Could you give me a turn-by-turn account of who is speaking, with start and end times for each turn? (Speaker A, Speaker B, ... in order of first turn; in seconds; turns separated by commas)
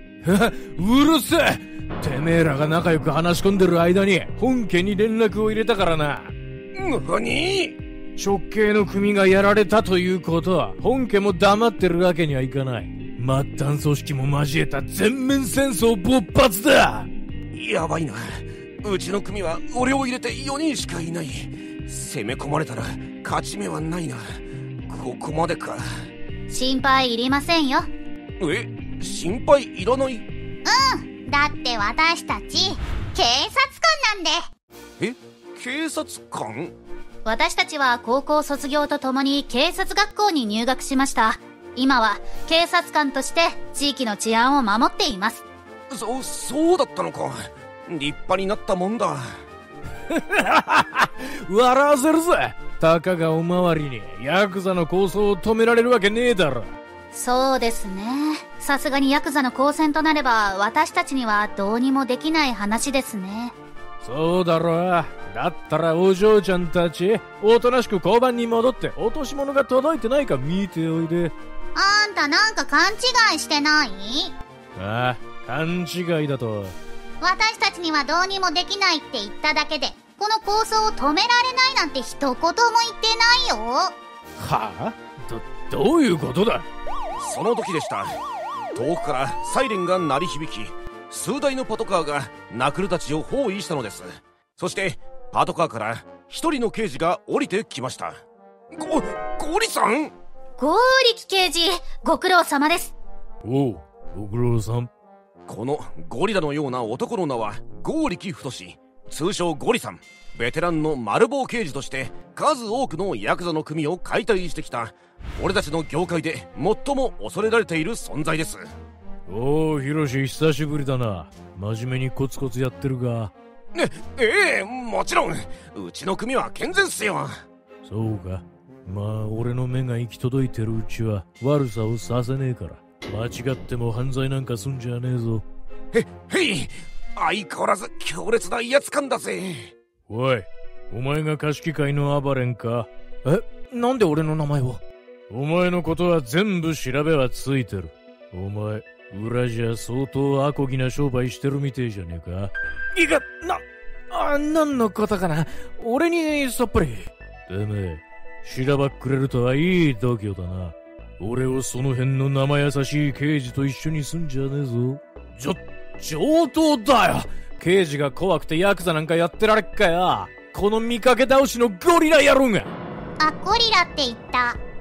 Speaker A: 0.2-6.3, Speaker B: 6.7-7.8, Speaker A: 8.2-17.1, Speaker B: 17.5-25.8, Speaker C: 26.5-27.9, Speaker B: 28.4-30.2, Speaker D: 30.6-34.5, Speaker B: 35.0-36.7, Speaker C: 37.2-45.4, Speaker B: 45.9-49.4, Speaker A: 50.1-56.8, Speaker C: 57.1-63.5, Speaker A: 64.0-71.3, Speaker D: 71.7-74.3, Speaker A: 74.8-76.7, Speaker D: 77.2-83.9, Speaker A: 84.4-86.6, Speaker B: 87.2-88.2, Speaker B: 88.7-98.2, Speaker B: 98.7-100.1, Speaker C: 100.6-102.9, Speaker A: 103.4-104.9, Speaker B: 105.5-118.6, Speaker A: 119.3-123.3, Speaker B: 123.7-127.4, Speaker A: 127.8-135.4, Speaker B: 135.9-139.7, Speaker A: 140.1-172.7, Speaker D: 173.2-174.6